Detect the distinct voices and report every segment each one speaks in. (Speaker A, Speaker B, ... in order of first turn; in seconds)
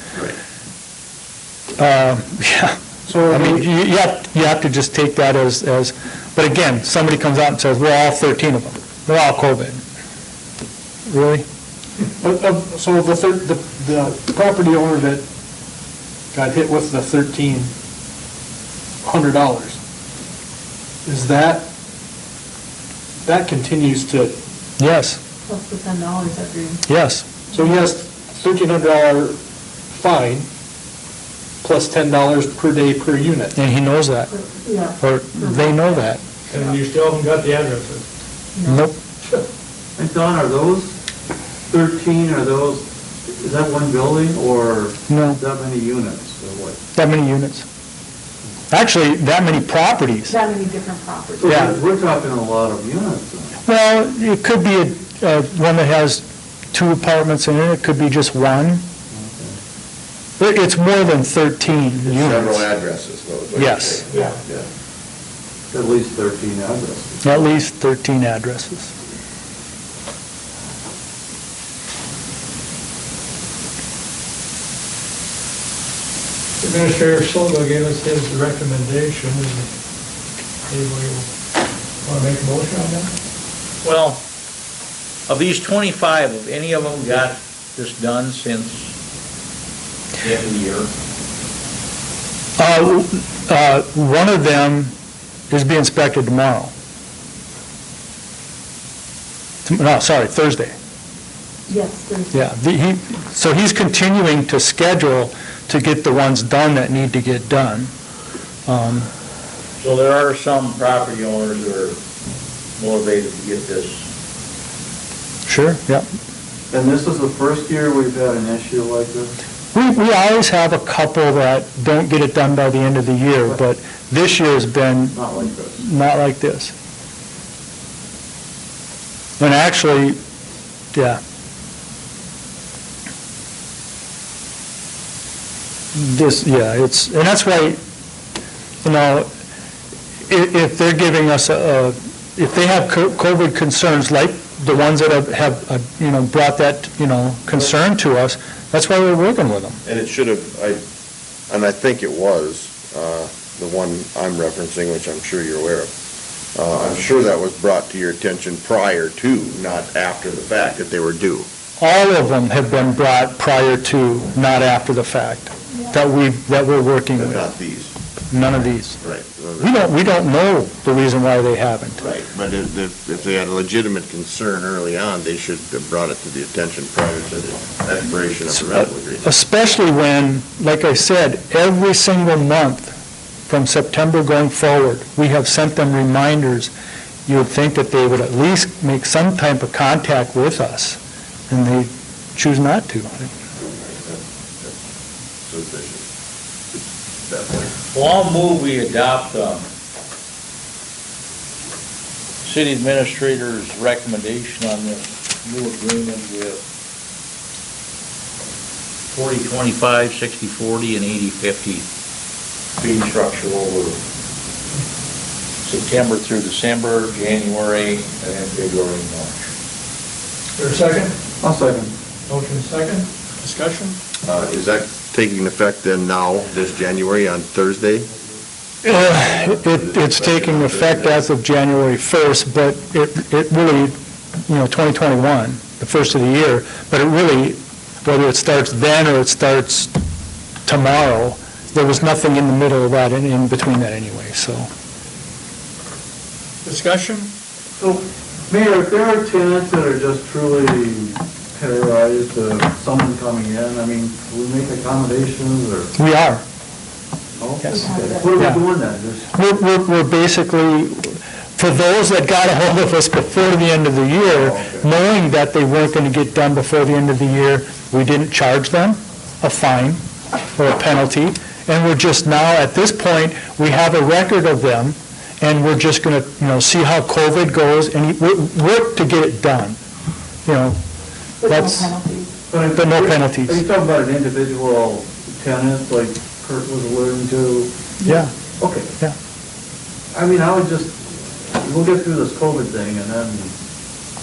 Speaker A: 1.8-2.8, 3.3-9.8, 11.1-11.5, 24.8-25.2, 26.9-27.2, 33.6-34.3, 35.0-36.2, 38.7-39.0, 45.1-45.4, 46.9-47.6, 48.7-50.4, 51.5-51.8, 53.7-58.9, 60.4-62.6, 63.5-64.0, 67.2-68.9, 92.6-94.9, 95.5-96.7, 99.7-100.7, 102.3-107.9, 108.7-109.1, 115.5-116.0, 119.7-126.7, 129.4-130.2, 130.9-131.2, 135.9-137.8, 138.8-139.3, 140.3-149.8, 161.8-167.5, 168.3-169.0, 169.6-172.0, 179.2-182.9, 183.5-186.7, 187.3-191.0, 191.5-193.3, 228.8-239.9, 240.7-244.7, 256.0-256.4, 259.3-270.0, 270.6-279.8, 280.5-280.8, 281.5-281.9, 282.8-283.6, 288.1-288.3
Speaker B: 3.1-3.6, 12.2-15.2, 16.3-17.7, 19.0-19.8, 21.0-21.7, 23.2-24.4, 27.5-29.4, 29.9-30.5, 31.6-33.5, 222.3-223.9, 246.7-247.3
Speaker C: 25.5-26.8, 34.3-35.9, 38.6-38.9, 50.3-51.6, 101.7-102.5, 257.7-258.4, 281.4-282.3, 288.0-288.3
Speaker D: 36.5-38.0, 76.6-79.7, 80.7-81.3, 82.0-83.1, 220.6-221.0
Speaker E: 40.0-40.9, 41.7-46.8, 51.4-53.5, 59.1-59.5, 65.7-67.4, 116.7-119.3, 125.1-125.8, 221.4-221.9, 247.8-255.9, 257.4-259.3, 264.4-264.8, 282.5-287.7, 288.6-288.9, 290.1-291.0, 291.6-293.5
Speaker F: 62.0-64.7, 149.8-150.8, 151.5-155.9, 156.5-161.5, 167.2-167.9, 169.0-169.8, 172.0-179.3, 193.6-194.7, 195.4-196.1, 197.3-197.8, 224.2-228.1, 229.1-231.2
Speaker G: 83.8-84.2, 85.3-88.9, 90.2-90.9, 109.8-112.0, 112.8-114.0, 197.9-199.7, 202.4-206.6, 209.1-211.9, 212.8-214.0, 215.6-219.4